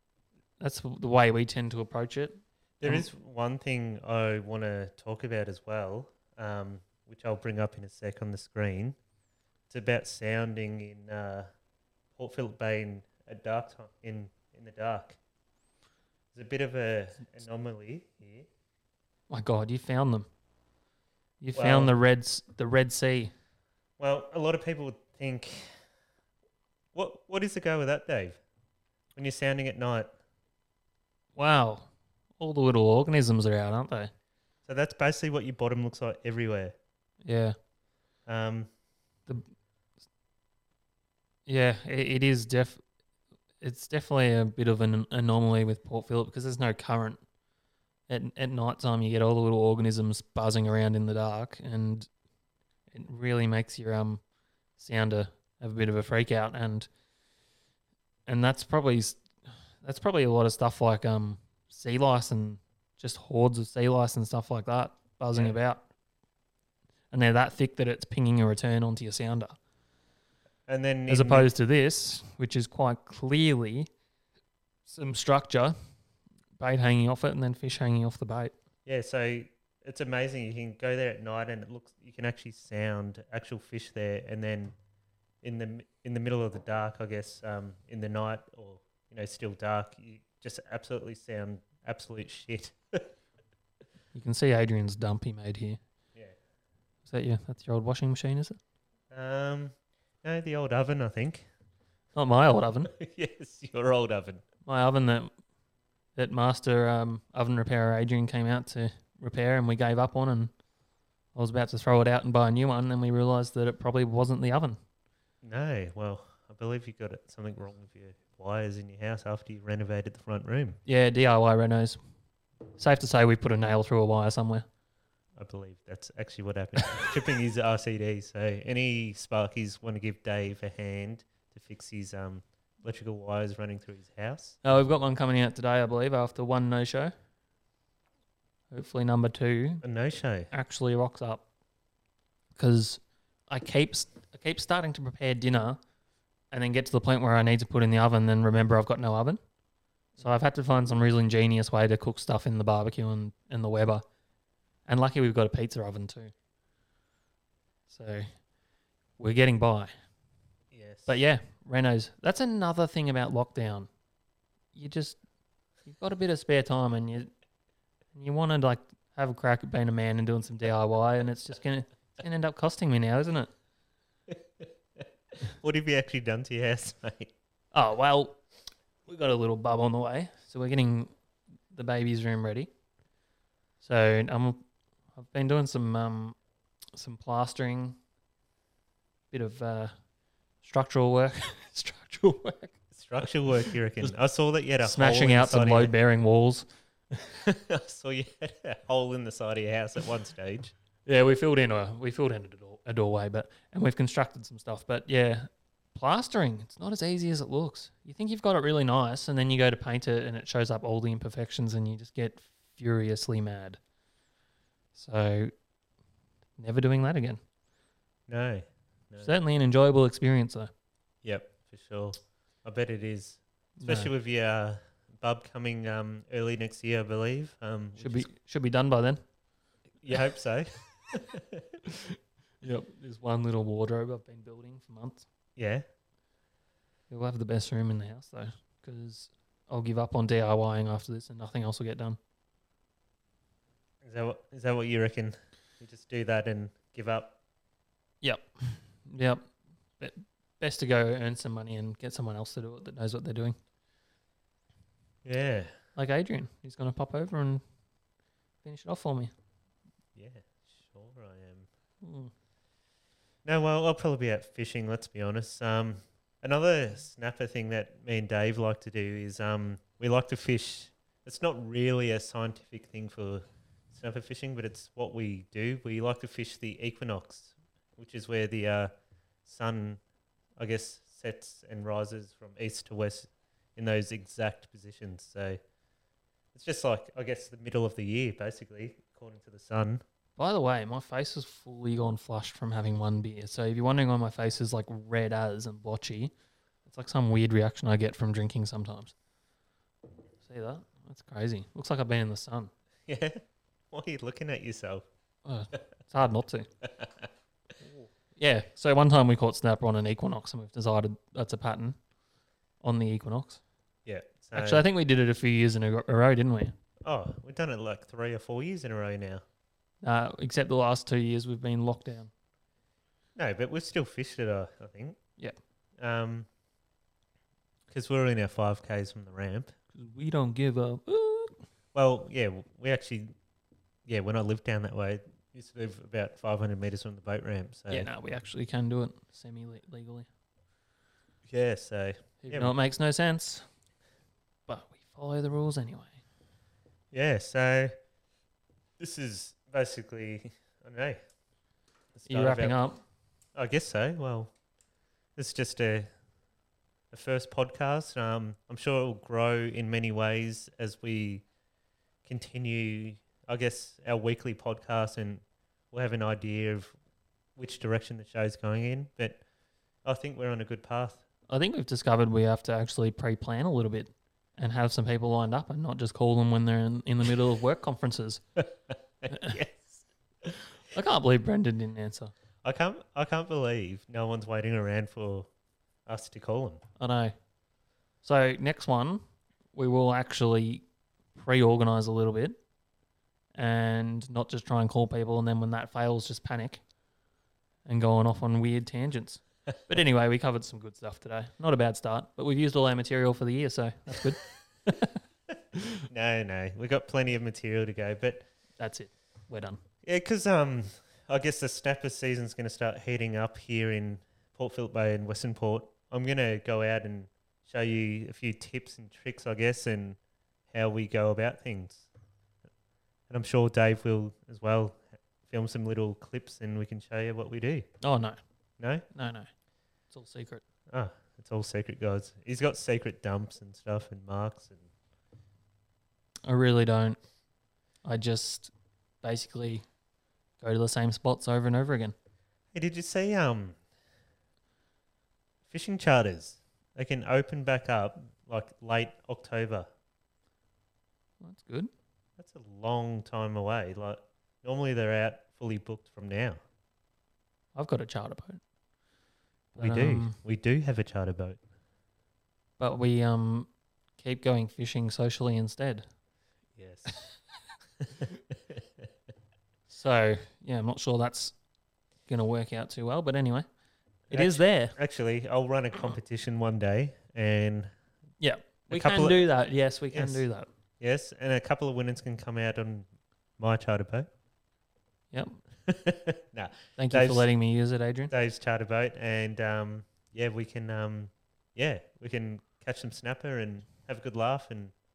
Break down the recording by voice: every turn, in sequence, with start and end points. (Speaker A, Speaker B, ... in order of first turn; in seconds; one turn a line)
Speaker A: 0.6-3.1
Speaker B: 2.8-9.0
Speaker B: 9.7-11.5
Speaker B: 12.1-15.2
Speaker B: 16.3-18.5
Speaker A: 19.3-20.2
Speaker A: 21.4-23.3
Speaker B: 21.6-21.9
Speaker B: 24.0-25.7
Speaker B: 26.9-28.4
Speaker B: 29.1-30.2
Speaker A: 31.4-34.1
Speaker B: 34.6-36.8
Speaker A: 37.2-37.5
Speaker B: 38.2-38.7
Speaker A: 41.5-42.8
Speaker A: 43.6-47.2
Speaker A: 48.1-52.1
Speaker A: 52.9-54.2
Speaker A: 54.8-56.9
Speaker A: 58.3-59.2
Speaker A: 59.8-65.8
Speaker A: 67.1-69.5
Speaker B: 70.7-71.5
Speaker A: 71.1-73.9
Speaker A: 74.9-75.8
Speaker A: 76.6-78.5
Speaker B: 78.8-84.7
Speaker B: 85.4-93.1
Speaker A: 94.1-95.8
Speaker A: 97.0-98.6
Speaker B: 99.1-101.5
Speaker A: 102.1-102.9
Speaker B: 102.8-104.4
Speaker A: 104.7-105.3
Speaker A: 106.2-110.5
Speaker A: 111.3-114.8
Speaker B: 115.4-120.8
Speaker A: 120.8-122.0
Speaker A: 122.8-124.7
Speaker B: 125.3-134.6
Speaker A: 134.6-137.1
Speaker A: 138.7-139.8
Speaker B: 139.8-140.5
Speaker A: 140.5-141.4
Speaker A: 142.6-145.8
Speaker A: 146.5-149.4
Speaker A: 150.2-154.0
Speaker A: 154.9-156.3
Speaker A: 157.9-158.3
Speaker A: 159.2-159.9
Speaker B: 160.7-161.2
Speaker A: 161.1-163.9
Speaker A: 164.7-165.2
Speaker A: 165.8-167.3
Speaker A: 168.1-173.5
Speaker B: 174.3-177.3
Speaker A: 177.7-178.4
Speaker A: 179.1-181.1
Speaker A: 181.7-182.7
Speaker A: 183.8-184.6
Speaker A: 185.2-186.3
Speaker A: 186.9-188.0
Speaker A: 189.3-189.9
Speaker A: 190.6-193.2
Speaker B: 192.9-195.9
Speaker A: 194.8-196.7
Speaker B: 197.4-200.7
Speaker A: 201.1-213.8
Speaker A: 214.9-215.5
Speaker A: 216.6-217.4
Speaker B: 218.3-219.3
Speaker A: 219.2-220.7
Speaker B: 221.2-228.3
Speaker A: 223.8-224.1
Speaker A: 228.0-229.2
Speaker B: 230.0-231.7
Speaker A: 231.9-235.2
Speaker B: 235.6-235.8
Speaker A: 237.1-242.2
Speaker B: 244.0-247.3
Speaker A: 248.2-249.4
Speaker A: 250.0-253.6
Speaker B: 255.2-255.7
Speaker A: 255.9-257.6
Speaker A: 258.6-259.3
Speaker B: 260.1-261.7
Speaker A: 262.0-262.3
Speaker B: 263.4-278.9
Speaker B: 279.4-280.0
Speaker B: 280.6-285.6
Speaker B: 286.5-290.0
Speaker A: 290.4-296.3
Speaker A: 296.9-299.1
Speaker A: 300.4-302.7
Speaker B: 303.1-305.1
Speaker A: 305.4-306.7
Speaker B: 306.8-307.2
Speaker A: 307.8-311.9
Speaker A: 312.8-313.6
Speaker B: 314.1-314.9
Speaker A: 314.5-316.7
Speaker B: 317.0-319.4
Speaker A: 320.0-322.3
Speaker B: 323.4-325.2
Speaker B: 326.0-326.5
Speaker B: 327.9-329.7
Speaker A: 329.9-331.6
Speaker B: 331.9-333.3
Speaker B: 334.1-338.1
Speaker A: 337.9-340.3
Speaker B: 341.4-342.7
Speaker A: 342.4-343.6
Speaker A: 344.7-346.2
Speaker B: 347.1-347.9
Speaker B: 349.0-351.2
Speaker B: 352.1-352.8
Speaker A: 352.3-353.0
Speaker B: 353.5-354.5
Speaker B: 355.4-356.1
Speaker B: 357.1-361.4
Speaker B: 362.2-366.9
Speaker B: 367.6-369.4
Speaker B: 370.0-371.2
Speaker A: 371.5-378.4
Speaker B: 379.2-380.5
Speaker A: 379.3-379.6
Speaker A: 380.9-382.3
Speaker B: 382.6-385.5
Speaker B: 386.1-386.8
Speaker A: 387.0-387.3
Speaker A: 388.2-389.2
Speaker A: 389.7-390.8
Speaker A: 391.3-392.6
Speaker A: 393.5-396.8
Speaker A: 397.9-405.1
Speaker B: 406.1-408.5
Speaker A: 408.8-409.8
Speaker B: 410.0-420.2
Speaker B: 420.7-422.1
Speaker B: 423.3-427.9
Speaker A: 428.0-428.4
Speaker B: 428.8-429.1
Speaker A: 429.1-429.5
Speaker A: 430.1-430.6
Speaker B: 430.9-434.9
Speaker A: 436.4-437.2
Speaker A: 438.0-438.7
Speaker A: 439.2-439.8
Speaker A: 440.6-442.1
Speaker B: 442.7-443.8
Speaker B: 445.7-449.9
Speaker A: 451.4-451.9
Speaker B: 452.4-456.6
Speaker A: 457.7-458.6
Speaker A: 459.7-460.4
Speaker B: 459.8-461.6
Speaker A: 462.8-466.1
Speaker B: 466.8-467.3
Speaker B: 468.0-468.8
Speaker A: 469.9-471.5
Speaker A: 472.3-473.7
Speaker B: 474.3-477.9
Speaker A: 474.3-474.9
Speaker A: 478.4-480.7
Speaker B: 478.9-479.5
Speaker B: 480.1-480.4
Speaker B: 481.0-484.3
Speaker A: 485.3-485.6
Speaker B: 485.9-487.5
Speaker A: 486.9-488.3
Speaker B: 488.3-494.9